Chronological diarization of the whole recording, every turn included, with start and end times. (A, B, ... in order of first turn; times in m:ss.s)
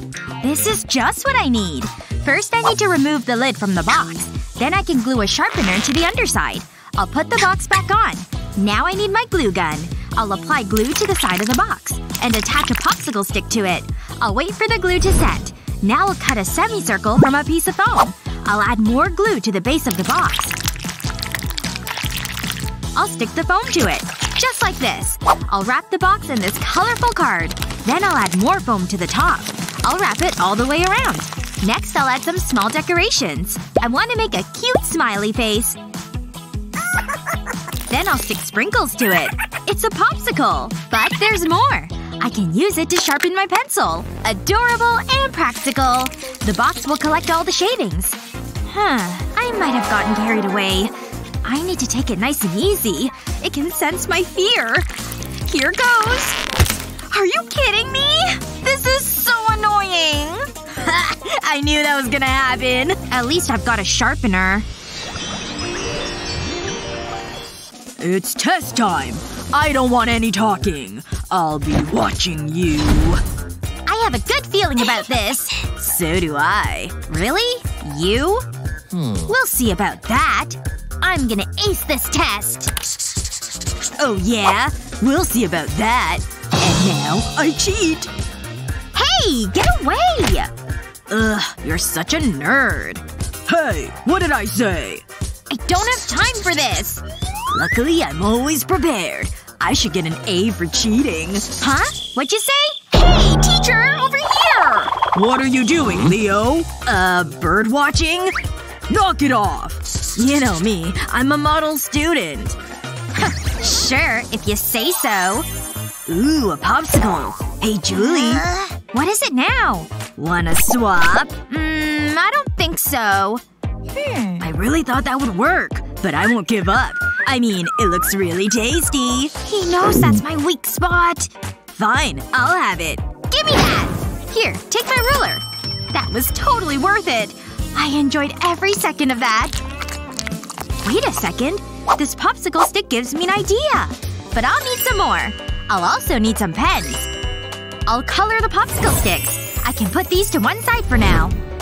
0:00.4-0:20.6 A
0:22.9-0:35.8 A
0:37.9-0:50.9 A
0:51.4-0:54.9 A
0:55.4-1:00.5 A
1:00.8-1:03.0 B
1:03.1-1:04.6 A
1:08.0-1:13.2 B
1:13.8-1:15.7 A
1:15.8-1:17.0 B
1:17.1-1:18.4 A
1:19.2-1:22.7 A
1:24.0-1:28.1 B
1:28.9-1:30.5 A
1:31.1-1:35.0 B
1:35.5-1:37.0 A
1:37.5-1:41.5 B
1:41.6-1:45.0 A
1:45.1-1:48.3 B
1:48.9-1:52.6 B
1:53.1-1:55.5 A
1:56.1-1:58.5 B
1:58.5-1:59.9 A
2:00.1-2:01.4 B
2:01.5-2:03.4 A
2:04.4-2:09.4 B
2:09.4-2:11.3 A
2:11.7-2:13.1 B
2:13.3-2:19.6 A
2:20.8-2:27.1 A
2:27.8-2:31.4 A